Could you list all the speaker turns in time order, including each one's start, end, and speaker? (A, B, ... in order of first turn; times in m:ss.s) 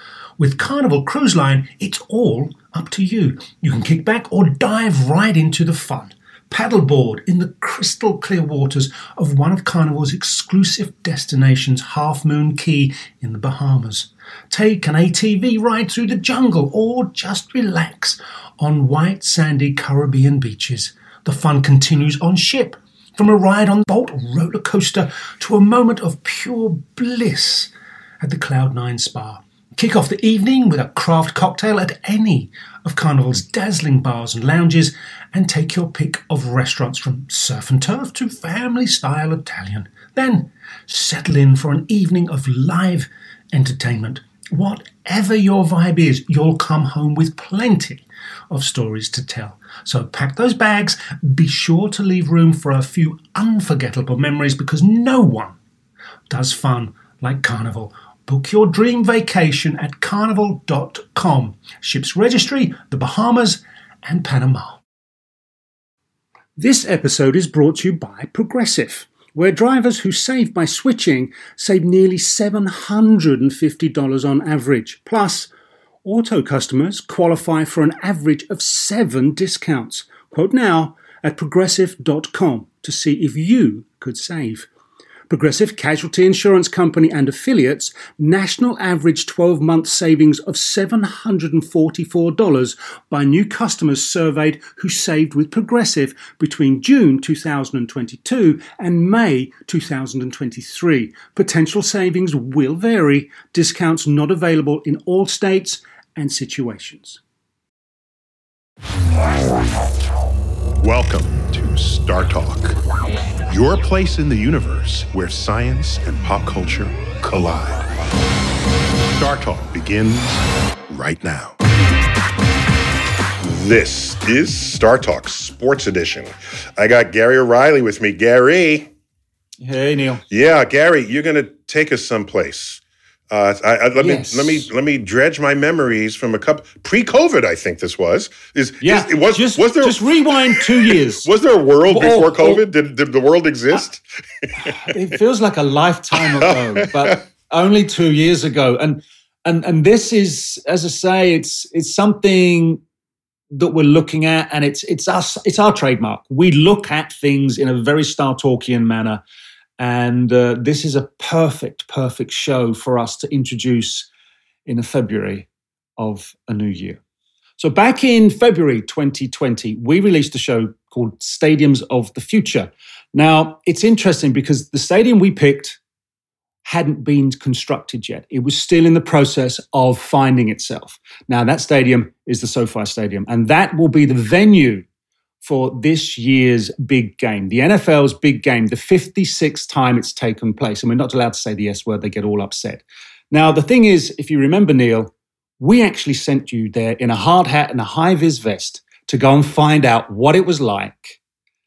0:00.4-0:55.6 A
0:56.3-1:04.8 A
1:06.6-1:15.5 A
1:16.0-1:24.7 A
1:25.3-1:47.2 A
1:50.8-1:52.8 B
1:53.5-1:57.9 B
1:59.0-2:00.4 B
2:00.9-2:01.5 B
2:03.4-2:08.9 B
2:09.6-2:10.2 C
2:10.3-2:24.0 B
2:14.0-2:14.7 C
2:18.8-2:21.3 C
2:21.8-2:22.7 C
2:24.6-2:24.9 B
2:24.6-2:32.8 C
2:26.2-2:27.2 B
2:33.5-2:39.2 C
2:39.8-2:44.1 C
2:44.6-2:47.0 C
2:47.6-2:55.8 C
2:56.6-3:04.8 C
3:05.4-3:21.2 C